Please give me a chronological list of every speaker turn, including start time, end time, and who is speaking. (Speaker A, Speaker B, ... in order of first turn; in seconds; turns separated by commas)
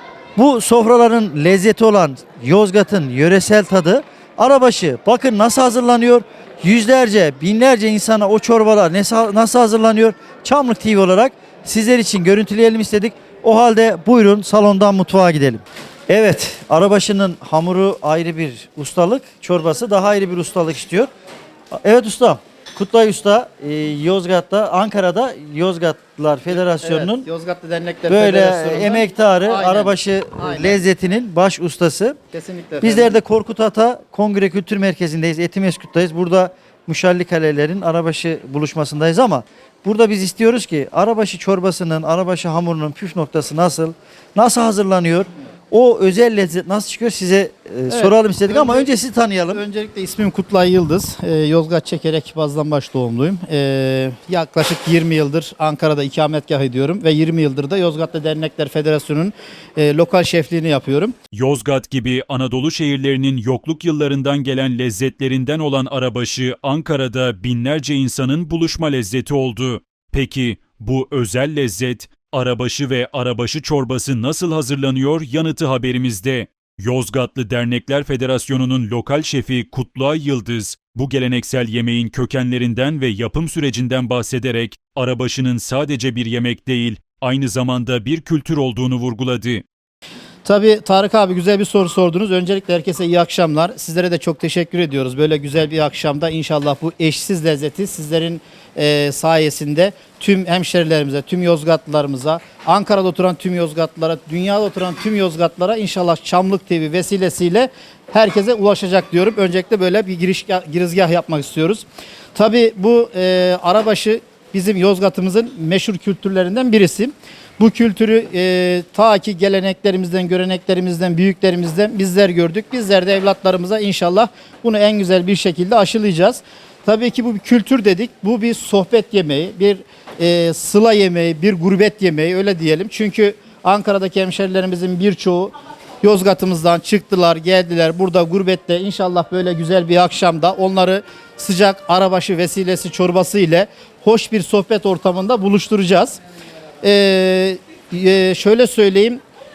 Speaker A: 0.3-21.1, Speaker A: 21.7-27.2, Speaker B: 26.5-30.8, Speaker A: 28.1-32.2, Speaker B: 32.3-33.2, Speaker A: 32.8-49.6, Speaker B: 47.9-48.9, Speaker B: 49.5-61.1, Speaker C: 61.3-89.6, Speaker B: 90.4-146.2, Speaker B: 146.8-149.2